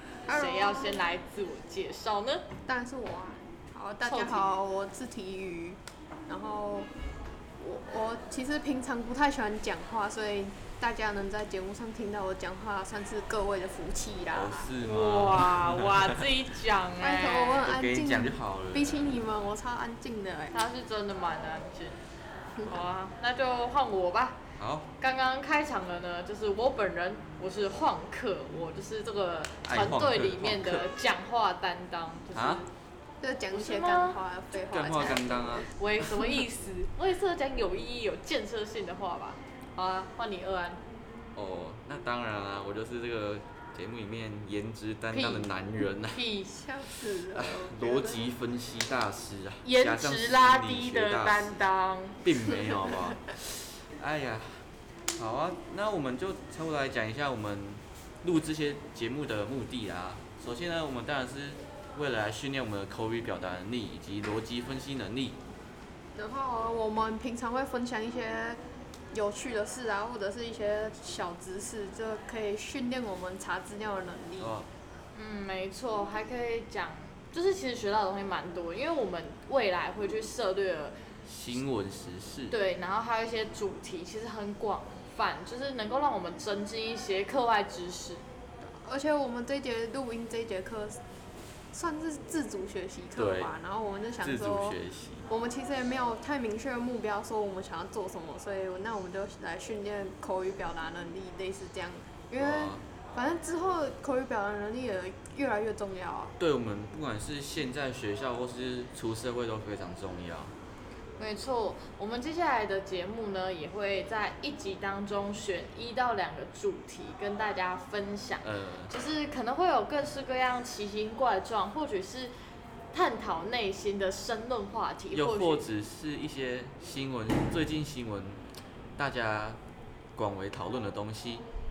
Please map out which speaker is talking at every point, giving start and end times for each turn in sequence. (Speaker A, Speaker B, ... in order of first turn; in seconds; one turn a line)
Speaker A: 0.3-1.0
Speaker B: 0.3-2.5
Speaker A: 2.7-6.9
Speaker B: 4.0-4.6
Speaker A: 7.6-14.7
Speaker C: 14.3-16.2
Speaker B: 14.8-17.7
Speaker A: 17.0-20.6
Speaker C: 17.6-19.2
Speaker B: 20.5-22.1
Speaker A: 22.6-22.8
Speaker B: 22.6-24.4
Speaker C: 24.6-24.9
Speaker B: 25.0-32.7
Speaker C: 29.6-30.9
Speaker C: 32.3-32.6
Speaker A: 33.2-35.7
Speaker B: 33.5-34.2
Speaker C: 34.5-35.7
Speaker B: 35.6-40.8
Speaker C: 41.4-46.2
Speaker B: 45.1-45.5
Speaker B: 46.1-46.6
Speaker A: 46.4-48.3
Speaker C: 47.0-51.6
Speaker B: 49.6-52.9
Speaker C: 52.2-54.6
Speaker C: 55.1-65.4
Speaker A: 66.2-68.6
Speaker A: 69.1-74.6
Speaker C: 74.4-74.7
Speaker B: 75.1-81.0
Speaker C: 81.3-82.5
Speaker B: 82.5-88.2
Speaker A: 88.8-91.0
Speaker A: 91.7-106.3
Speaker C: 93.2-93.5
Speaker C: 94.2-95.3
Speaker C: 102.4-102.8
Speaker C: 106.4-110.5
Speaker B: 111.2-122.3
Speaker C: 118.4-118.9
Speaker B: 122.9-125.7
Speaker C: 125.1-129.6
Speaker C: 130.2-131.4